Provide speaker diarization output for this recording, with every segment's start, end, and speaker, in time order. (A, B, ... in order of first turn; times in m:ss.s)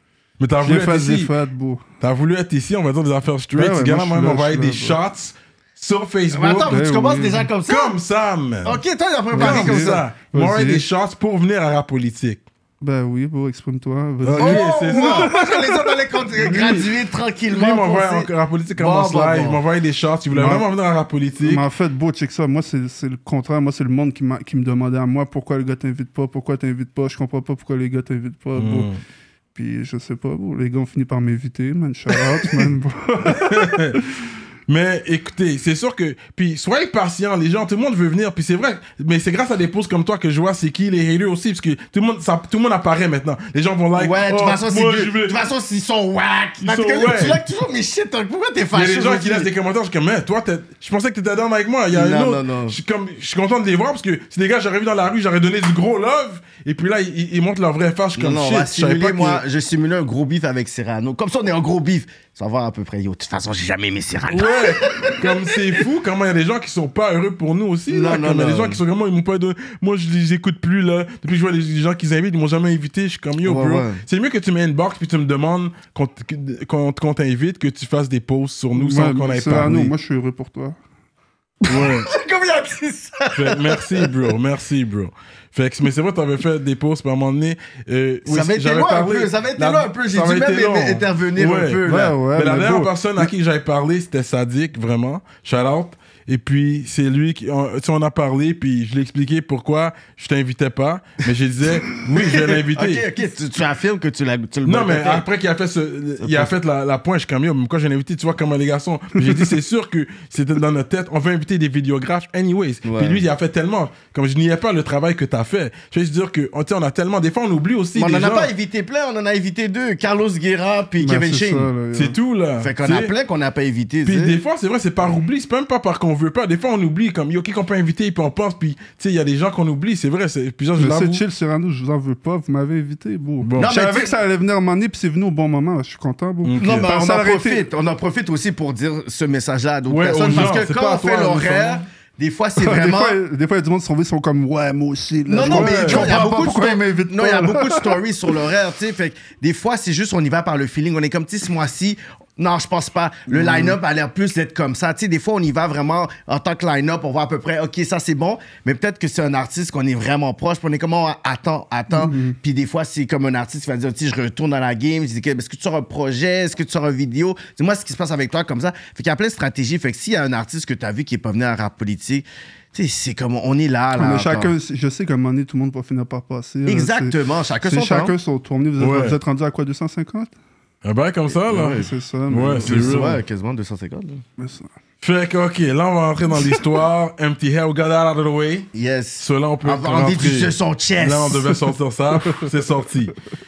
0:00.4-0:01.3 A
0:00.6-0:01.8 B
0:02.0-0:06.8 A
0:03.5-0:05.0 B
0:06.3-0:08.0 C
0:06.6-0:07.5 B
0:07.6-0:08.8 A
0:08.6-0:10.0 C
0:09.3-0:10.8 B
0:09.3-0:12.4 A
0:12.8-0:16.9 B
0:14.2-0:15.4 A
0:14.4-0:19.6 C
0:17.5-0:21.6 A
0:20.3-0:20.7 B
0:21.4-0:28.9 B
0:28.6-0:29.0 A
0:29.5-0:34.0 B
0:32.4-0:32.7 A
0:33.3-0:34.0 A
0:34.7-0:45.4 A
0:44.0-0:49.5 C
0:46.6-0:47.4 A
0:48.7-0:59.4 A
0:51.9-0:52.8 C
0:58.2-1:05.8 C
1:04.3-1:19.9 A
1:07.9-1:08.8 C
1:13.4-1:14.0 C
1:18.7-1:20.8 B
1:21.6-1:24.3 C
1:21.7-1:22.1 A
1:23.3-1:43.0 A
1:28.2-1:32.1 C
1:31.8-1:33.3 B
1:42.2-1:45.2 C
1:44.6-1:58.5 A
1:46.2-1:46.5 C
1:52.8-1:53.2 C
1:58.0-2:01.7 C
2:01.0-2:02.2 B
2:01.9-2:03.1 A
2:02.6-2:04.4 C
2:04.0-2:11.2 A
2:10.8-2:17.6 B
2:13.4-2:13.7 A
2:13.6-2:14.1 C
2:16.4-2:16.9 A
2:16.6-2:23.2 C
2:19.9-2:21.8 A
2:22.6-2:28.0 B
2:25.3-2:54.5 C
2:25.4-2:26.2 A
2:33.3-2:33.8 B
2:41.9-2:42.4 B
2:53.9-3:00.3 B
2:56.6-2:58.1 C
2:58.8-2:59.2 A
3:00.8-3:03.2 A
3:01.3-3:01.9 C
3:01.7-3:03.0 B
3:02.6-3:04.2 C
3:04.4-3:04.7 B
3:05.0-3:13.2 A
3:08.7-3:11.5 C